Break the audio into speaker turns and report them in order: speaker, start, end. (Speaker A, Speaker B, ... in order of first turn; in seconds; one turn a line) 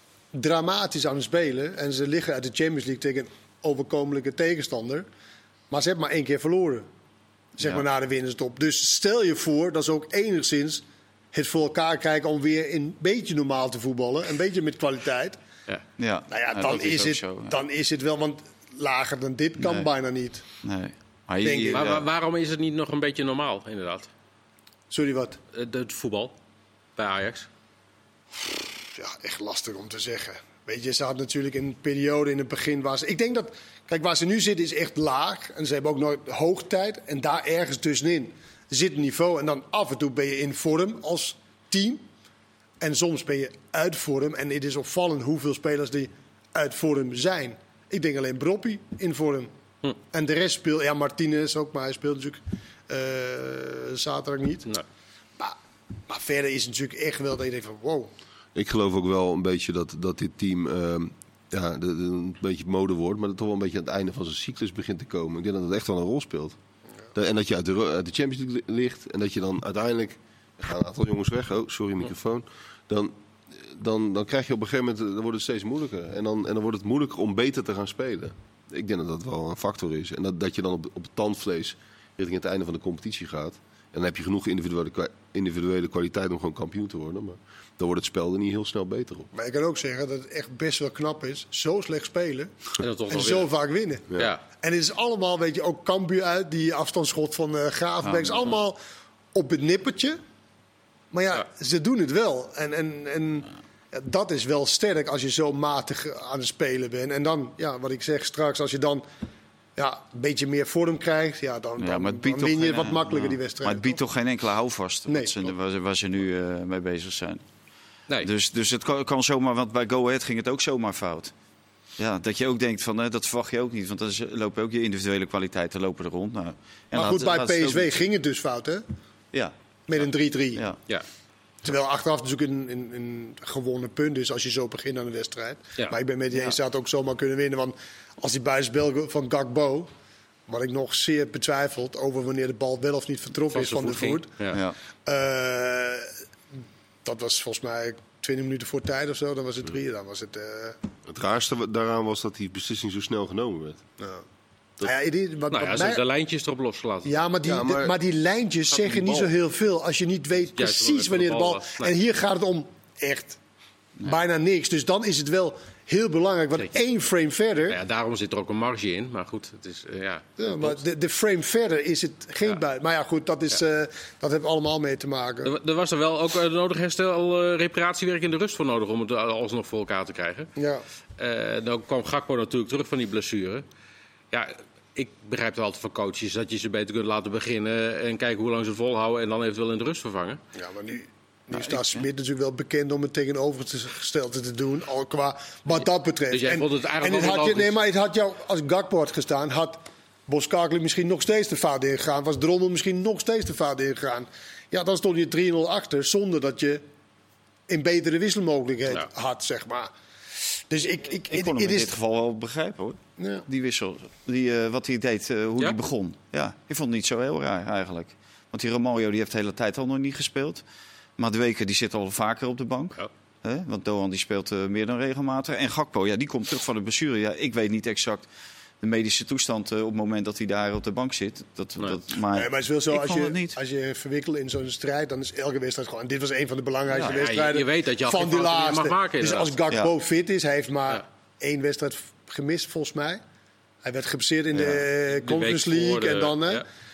Speaker A: 0.3-5.1
Speaker A: 5.7-6.8
Speaker A: 7.6-15.4
Speaker B: 16.0-17.5
Speaker A: 16.3-20.4
Speaker B: 19.6-19.9
Speaker B: 20.6-22.1
Speaker A: 21.4-21.9
Speaker C: 21.7-24.1
Speaker A: 24.9-25.4
Speaker C: 25.5-26.3
Speaker C: 27.0-27.5
Speaker A: 28.9-42.0
Speaker A: 42.8-49.5
Speaker A: 50.1-54.7
Speaker A: 56.1-58.1
Speaker D: 58.5-66.6
Speaker D: 67.1-89.3
Speaker A: 89.3-92.5
Speaker C: 92.8-93.5
Speaker A: 93.1-98.8
Speaker B: 98.0-98.5
Speaker A: 99.3-100.2
Speaker A: 101.1-109.0
Speaker A: 109.8-114.0
Speaker B: 111.8-117.4
Speaker A: 115.1-115.5
Speaker B: 118.2-121.3
Speaker B: 122.0-128.0
Speaker A: 126.9-128.8
Speaker A: 129.9-130.6
Speaker A: 131.6-139.9
Speaker C: 135.8-136.6
Speaker A: 140.5-144.3
Speaker C: 143.5-144.6
Speaker B: 144.5-144.8
Speaker A: 145.1-146.1
Speaker A: 147.0-150.8
Speaker D: 151.1-153.8
Speaker A: 154.8-156.0
Speaker C: 155.5-157.1
Speaker A: 157.0-163.4
Speaker D: 157.4-157.9
Speaker C: 160.6-161.9
Speaker A: 164.0-167.8
Speaker C: 167.7-170.7
Speaker A: 170.4-175.5
Speaker C: 175.4-180.5
Speaker A: 180.6-180.8
Speaker C: 181.2-183.6
Speaker C: 184.3-190.4
Speaker A: 190.5-206.8
Speaker B: 191.6-192.0
Speaker C: 196.3-197.7
Speaker A: 207.7-211.9
Speaker B: 211.3-220.6
Speaker A: 213.2-213.4
Speaker B: 221.2-228.3
Speaker B: 228.8-233.6
Speaker A: 232.3-243.2
Speaker B: 236.9-237.2
Speaker C: 237.0-239.5
Speaker A: 243.8-246.6
Speaker B: 244.5-244.8
Speaker C: 245.1-246.6